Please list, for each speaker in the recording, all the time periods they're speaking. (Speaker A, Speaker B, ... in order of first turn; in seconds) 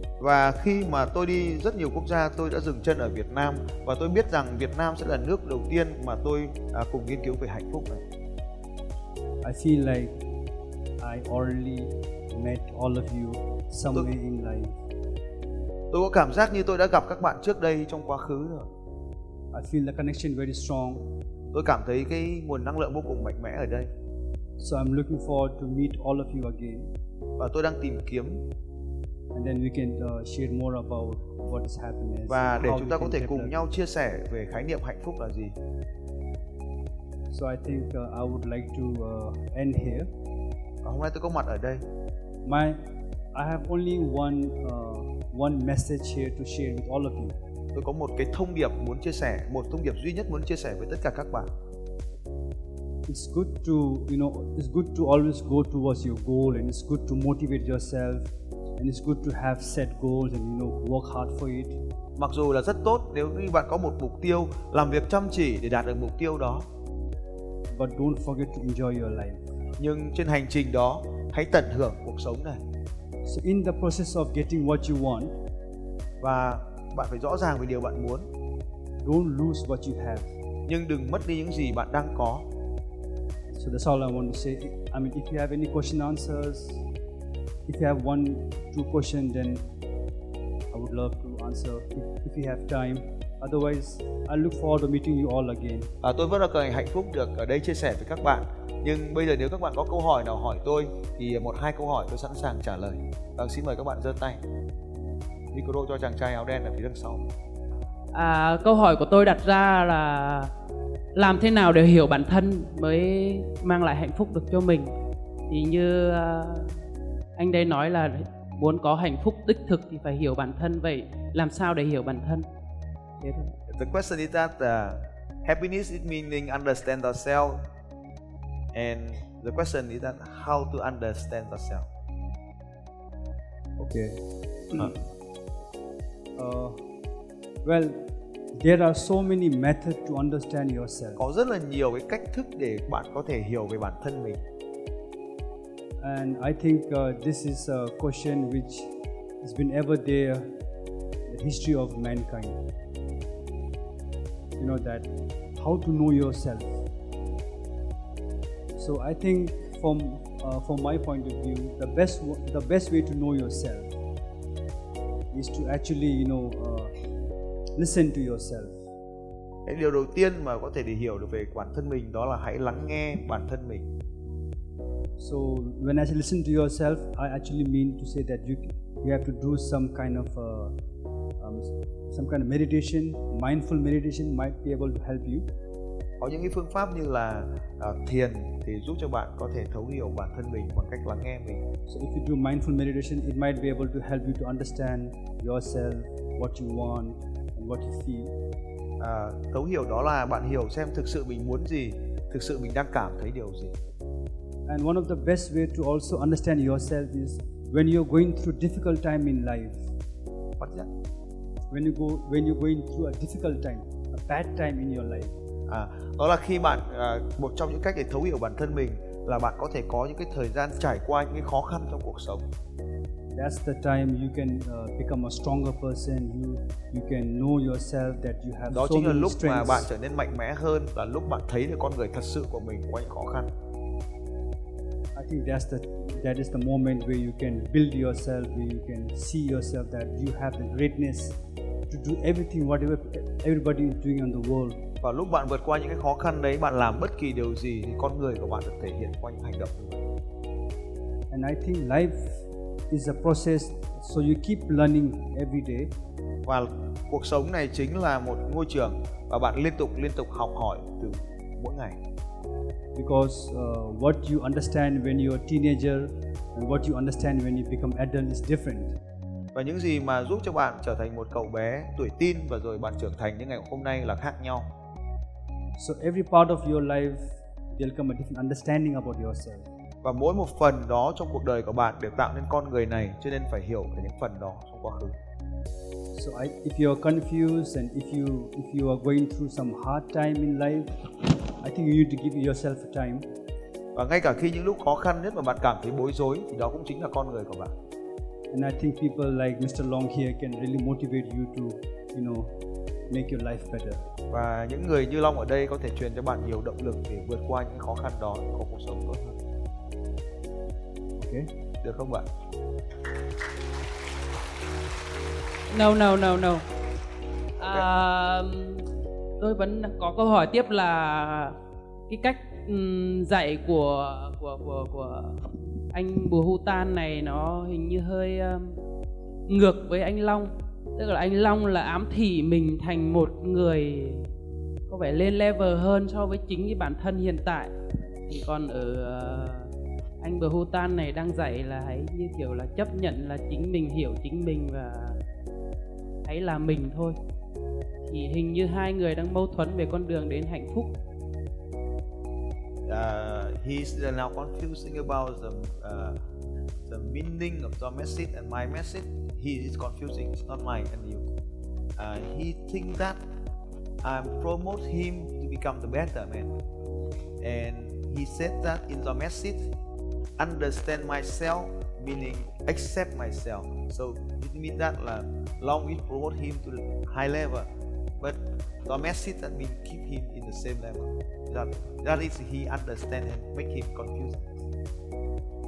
Speaker A: 0.2-8.0, 15.9-18.7, 21.5-23.9, 27.4-28.4, 32.3-35.5, 40.8-41.8, 47.7-51.5, 62.2-66.7, 69.8-72.6, 76.2-78.3, 80.7-82.5, 96.0-104.4, 105.5-107.3, 123.7-127.6, 128.7-131.9, 141.2-144.4, 169.7-173.8, 186.2-191.6, 199.0-203.7, 210.6-210.9, 215.7-222.4, 228.7-233.5, 245.0-250.0, 256.4-262.0, 269.5-274.7, 280.0-285.1, 293.9-297.7, 304.3-309.4, 311.8-312.3, 317.6-317.9, 352.9-356.2, 356.9-361.2, 362.0-363.2, 364.0-366.5, 367.4-369.7, 370.4-377.7, 378.2-384.5
Speaker B: 9.4-10.2, 11.0-14.8, 19.5-21.1, 24.6-26.9, 29.3-33.6, 37.3-40.1, 42.4-42.8, 43.3-47.4, 53.1-61.8, 67.7-69.4, 73.2-75.4, 79.0-80.3, 83.5-86.8, 87.7-89.7, 90.7-95.9, 133.8-134.9, 136.4-136.8, 137.6-141.2, 146.0-148.9, 149.4-150.5, 151.3-152.6, 154.6-156.8, 158.8-163.9, 165.3-166.9, 167.8-168.8, 175.2-180.7, 181.4-185.4, 191.9-198.3, 204.7-209.9, 211.7-215.3, 223.3-229.9, 235.2-241.4, 241.9-244.8, 251.3-255.9, 262.9-268.9, 275.8-279.7, 286.1-291.0, 291.6-293.2, 298.5-302.5, 303.1-304.0, 311.2-311.5
Speaker C: 108.1-110.5, 111.1-114.9, 115.5-116.7, 117.3-122.5, 123.2-123.5, 315.7-316.6, 317.6-318.9, 319.4-321.6, 322.1-328.8, 329.5-334.3, 334.9-337.7, 338.3-339.7, 340.2-345.2, 346.2-347.2, 348.1-350.9